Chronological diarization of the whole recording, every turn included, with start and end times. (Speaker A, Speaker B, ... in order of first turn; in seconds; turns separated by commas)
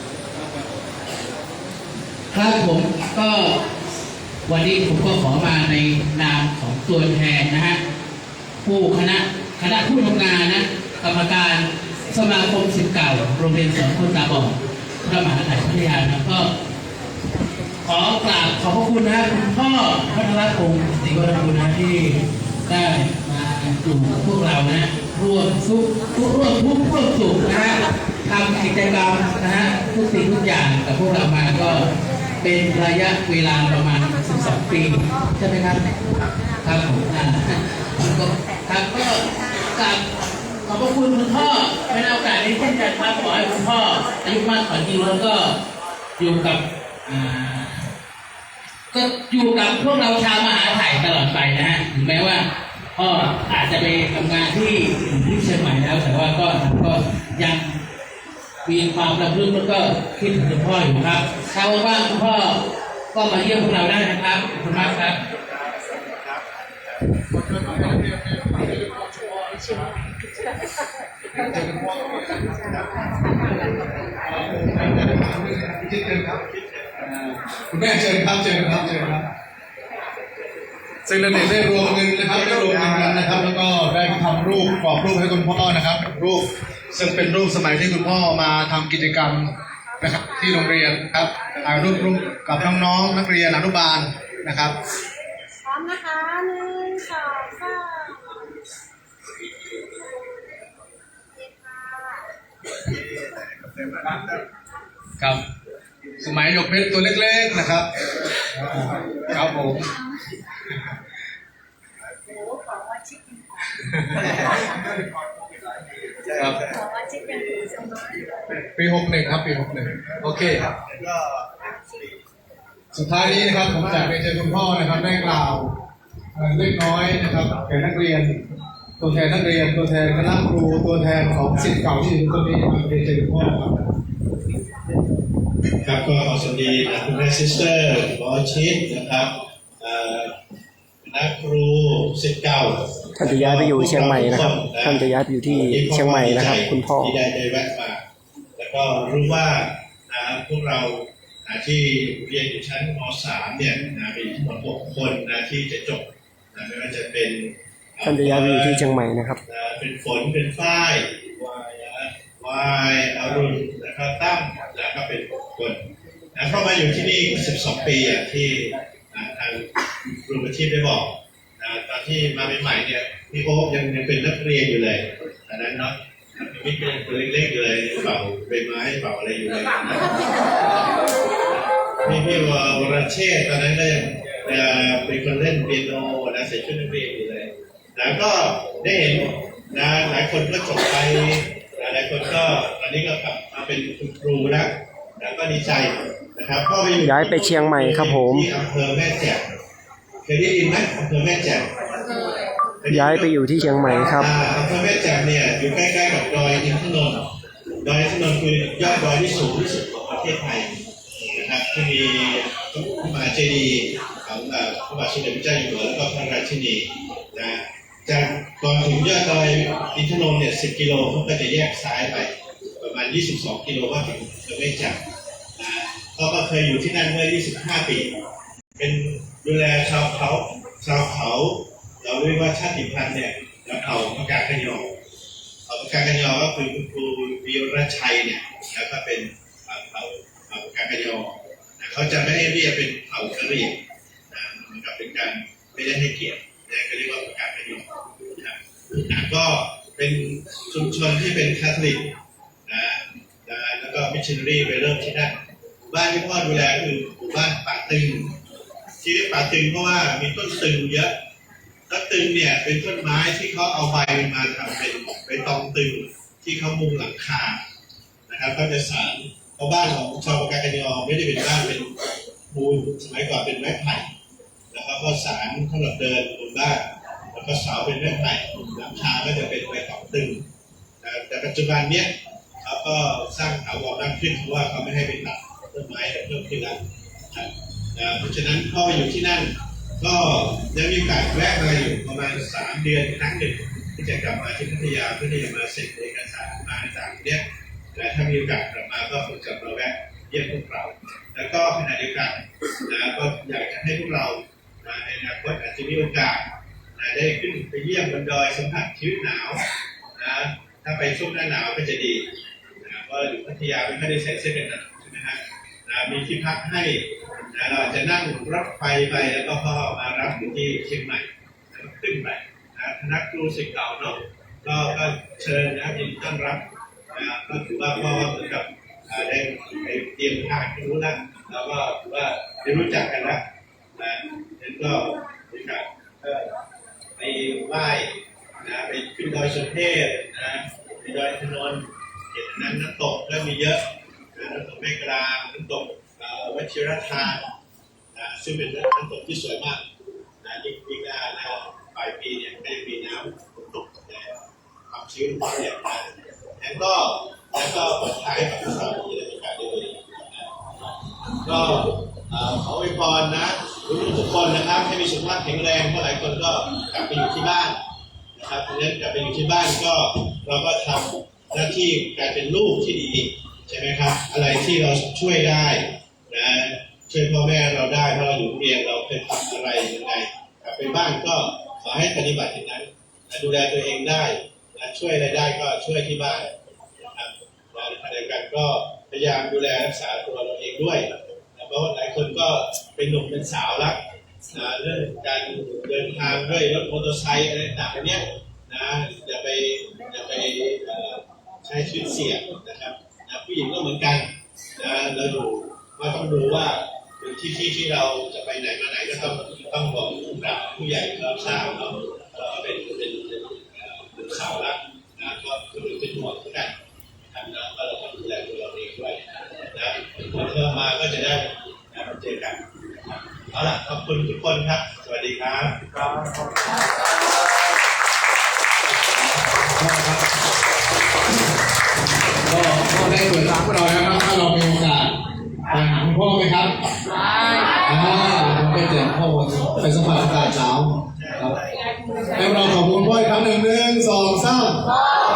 Speaker A: 0.3-0.7, Speaker B: 2.3-3.6, Speaker B: 4.5-7.8, Speaker B: 8.6-16.5, Speaker B: 17.8-31.9, Speaker B: 32.4-35.8, Speaker B: 36.6-39.2, Speaker B: 39.7-40.0, Speaker B: 40.6-45.5, Speaker B: 46.2-47.8, Speaker B: 48.9-57.8, Speaker B: 58.6-62.6, Speaker B: 63.1-65.2, Speaker C: 65.2-67.2, Speaker A: 67.5-69.8, Speaker A: 71.3-73.3, Speaker A: 74.2-76.4, Speaker C: 76.4-77.1, Speaker A: 77.0-79.3, Speaker A: 81.0-94.8, Speaker D: 95.7-98.2, Speaker C: 102.9-104.4, Speaker A: 106.2-107.9, Speaker A: 108.5-109.9, Speaker D: 112.5-113.4, Speaker A: 113.7-114.4, Speaker C: 116.2-116.8, Speaker A: 118.8-120.6, Speaker C: 120.5-122.2, Speaker A: 122.9-125.7, Speaker A: 126.3-128.4, Speaker A: 129.0-133.8, Speaker C: 135.8-140.3, Speaker C: 141.0-148.0, Speaker E: 143.2-147.2, Speaker C: 148.6-158.9, Speaker E: 158.0-159.4, Speaker C: 159.4-165.8, Speaker C: 166.3-180.9, Speaker C: 182.0-199.4, Speaker E: 197.0-198.5, Speaker C: 200.2-201.7, Speaker C: 202.8-207.2, Speaker E: 202.9-204.3, Speaker C: 207.8-210.7, Speaker C: 211.3-225.0, Speaker C: 225.6-228.2, Speaker C: 228.8-234.9, Speaker C: 235.7-252.1, Speaker C: 252.7-258.4, Speaker C: 259.0-261.1, Speaker C: 261.9-267.6, Speaker C: 268.3-272.0, Speaker C: 272.5-274.1, Speaker C: 274.7-280.4, Speaker C: 281.0-282.1, Speaker C: 282.6-286.8, Speaker C: 287.3-297.4, Speaker C: 297.9-306.4, Speaker C: 306.9-309.6, Speaker C: 310.1-312.2, Speaker C: 312.8-333.4, Speaker C: 333.9-336.5, Speaker C: 337.2-343.8, Speaker C: 344.4-347.5, Speaker C: 348.1-349.8, Speaker C: 350.4-356.1, Speaker C: 356.6-360.6, Speaker C: 361.4-367.8, Speaker C: 368.3-386.5, Speaker C: 387.1-394.0, Speaker C: 394.5-425.9, Speaker A: 429.4-430.2, Speaker A: 432.4-435.1, Speaker A: 435.7-436.7, Speaker A: 437.8-441.6, Speaker C: 441.1-442.8, Speaker A: 442.4-444.8